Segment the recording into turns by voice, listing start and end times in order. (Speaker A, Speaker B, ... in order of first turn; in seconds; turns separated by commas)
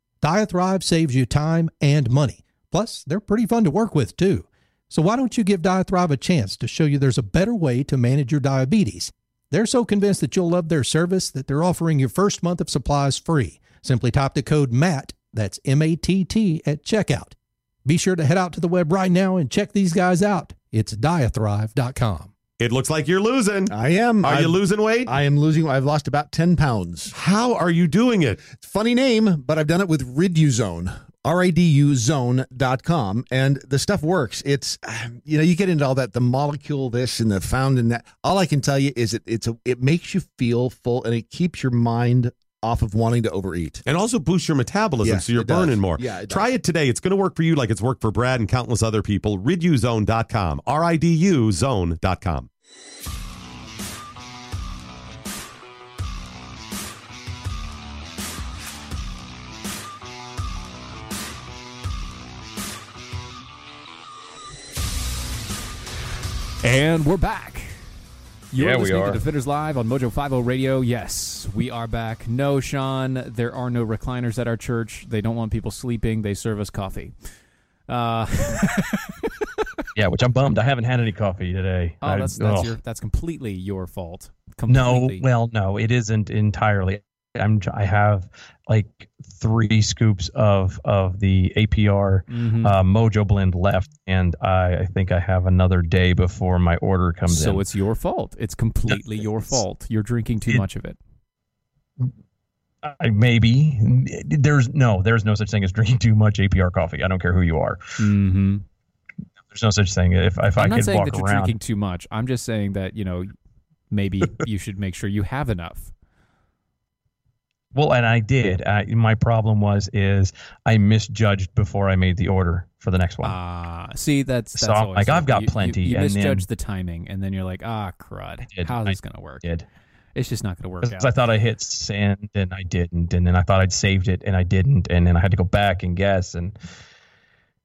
Speaker A: 0.2-22.3, Speaker B: 22.6-25.1, Speaker C: 23.7-27.2, Speaker B: 27.2-28.4, Speaker C: 28.4-43.8, Speaker B: 43.9-52.5, Speaker C: 45.0-46.5, Speaker D: 66.6-67.8, Speaker D: 68.5-77.1, Speaker E: 68.6-69.2, Speaker D: 77.9-79.3, Speaker E: 80.0-82.8, Speaker D: 82.0-85.2, Speaker E: 84.7-97.6, Speaker D: 92.3-92.8, Speaker D: 97.3-101.0, Speaker E: 102.8-107.8, Speaker D: 108.0-108.6, Speaker E: 109.5-111.5, Speaker D: 110.5-113.3, Speaker D: 113.9-115.9, Speaker E: 117.7-123.3, Speaker D: 123.2-129.5, Speaker E: 124.5-126.5, Speaker E: 128.5-129.6, Speaker D: 130.1-131.1, Speaker E: 130.8-136.6